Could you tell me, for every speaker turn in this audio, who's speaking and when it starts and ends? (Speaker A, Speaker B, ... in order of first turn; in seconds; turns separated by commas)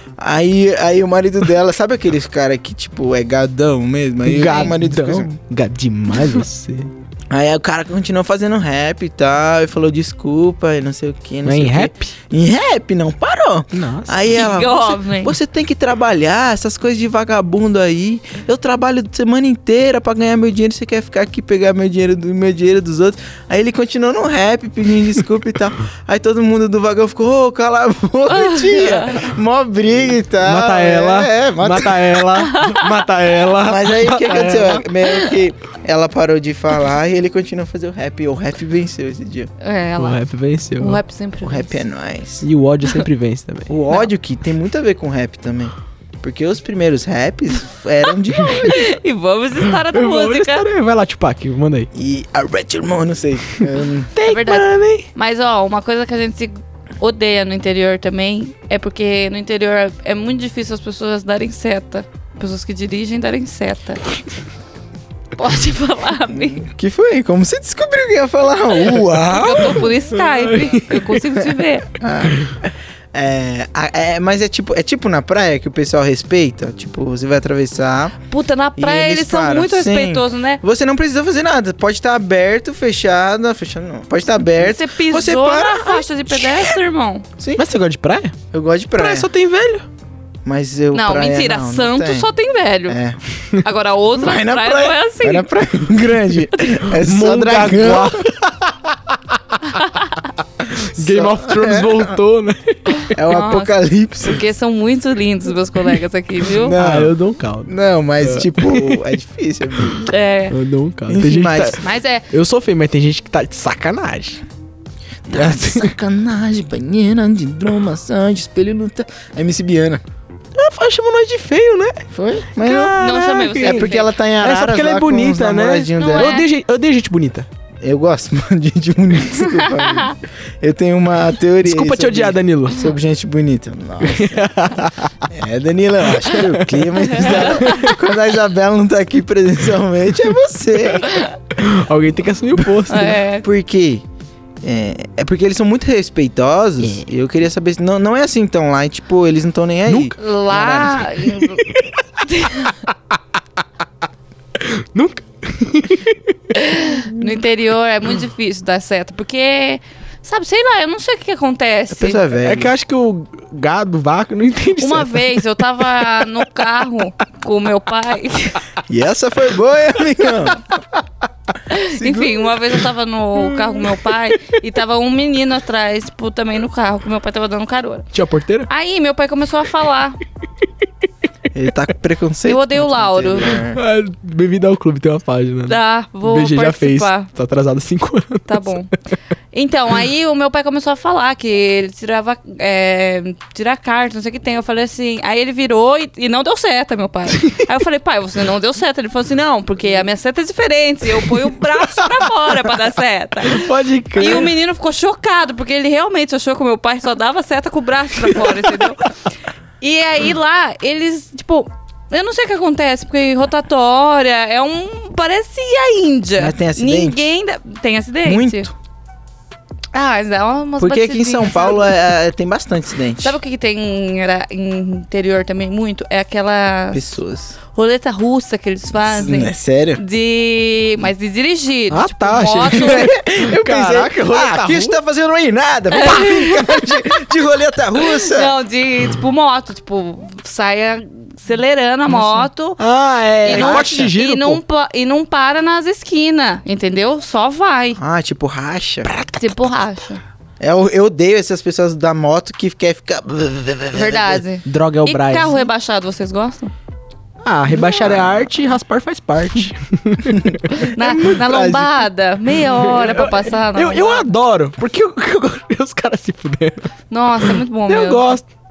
Speaker A: 0.2-5.3, Speaker B: 4.2-6.9, Speaker C: 4.5-4.7, Speaker A: 7.3-32.3, Speaker B: 11.4-12.1, Speaker B: 13.7-14.3, Speaker C: 14.3-15.3, Speaker C: 28.3-29.2, Speaker B: 30.4-34.8, Speaker C: 32.5-32.9, Speaker A: 33.6-39.5, Speaker C: 34.3-35.3, Speaker C: 39.6-40.2, Speaker B: 40.0-41.0, Speaker C: 40.8-41.7, Speaker A: 41.4-42.5, Speaker B: 42.4-43.7, Speaker A: 43.7-48.8, Speaker C: 48.5-50.6, Speaker B: 49.8-51.9, Speaker A: 51.9-54.1, Speaker B: 54.1-55.1, Speaker C: 54.2-64.0, Speaker C: 65.3-66.6, Speaker A: 66.3-69.9, Speaker C: 69.2-71.9, Speaker B: 70.1-71.2, Speaker A: 71.9-78.2, Speaker C: 78.3-80.6, Speaker A: 78.8-86.7, Speaker C: 84.6-87.2, Speaker A: 87.4-87.7, Speaker B: 87.5-88.3, Speaker A: 88.5-89.3, Speaker B: 88.9-89.8, Speaker A: 90.4-92.3, Speaker C: 90.9-93.0, Speaker A: 92.9-93.2, Speaker C: 93.5-95.5, Speaker A: 94.1-98.3, Speaker B: 96.9-99.6, Speaker C: 99.7-100.1, Speaker B: 100.6-103.1, Speaker A: 101.0-102.1, Speaker A: 103.1-104.4, Speaker C: 103.2-106.8, Speaker A: 106.5-107.1, Speaker B: 106.7-109.1, Speaker A: 107.7-110.1, Speaker C: 110.1-110.5, Speaker B: 110.5-114.4, Speaker A: 111.1-111.8, Speaker C: 111.8-112.2, Speaker A: 115.2-120.0, Speaker B: 115.3-115.9, Speaker B: 120.5-127.5, Speaker A: 122.1-123.0, Speaker C: 122.8-124.1, Speaker A: 123.5-126.4, Speaker C: 126.0-126.5, Speaker A: 127.8-134.7, Speaker B: 131.6-132.8, Speaker B: 134.0-135.2, Speaker A: 135.2-141.1, Speaker B: 136.3-137.9, Speaker C: 137.2-137.9, Speaker B: 141.5-143.2, Speaker C: 142.9-143.5, Speaker A: 143.4-144.0, Speaker A: 144.6-151.1, Speaker B: 149.9-150.1, Speaker C: 150.2-151.6, Speaker B: 151.3-152.0, Speaker C: 152.2-152.7, Speaker B: 152.6-152.9, Speaker B: 154.6-156.3, Speaker C: 156.5-162.2, Speaker A: 161.9-162.7, Speaker B: 162.4-165.4, Speaker C: 164.8-168.6, Speaker A: 168.9-170.6, Speaker C: 171.7-178.1, Speaker A: 171.9-172.5, Speaker B: 178.1-178.7, Speaker C: 178.7-180.2, Speaker A: 181.5-183.8, Speaker C: 182.4-183.6, Speaker B: 183.7-188.8, Speaker C: 185.7-187.3, Speaker C: 188.5-188.9, Speaker C: 189.5-209.1, Speaker B: 201.3-202.0, Speaker B: 203.4-204.5, Speaker C: 209.8-218.7, Speaker A: 216.4-217.3, Speaker A: 218.2-218.7, Speaker C: 219.9-222.0, Speaker A: 220.8-223.3, Speaker C: 223.2-227.0, Speaker A: 226.9-227.6, Speaker C: 227.7-233.1, Speaker A: 229.0-230.0, Speaker B: 231.9-235.0, Speaker A: 232.7-238.5, Speaker C: 235.9-237.2, Speaker C: 238.0-242.8, Speaker B: 242.1-244.6, Speaker C: 243.4-248.0, Speaker A: 243.5-244.1, Speaker A: 248.0-249.1, Speaker B: 249.0-249.7, Speaker C: 249.4-250.2, Speaker A: 250.6-254.4, Speaker C: 253.9-256.7, Speaker B: 254.6-255.5, Speaker B: 257.4-260.6, Speaker A: 257.7-258.4, Speaker A: 260.2-262.0, Speaker C: 260.7-264.3, Speaker B: 262.8-266.9, Speaker C: 267.1-268.3, Speaker B: 267.4-268.5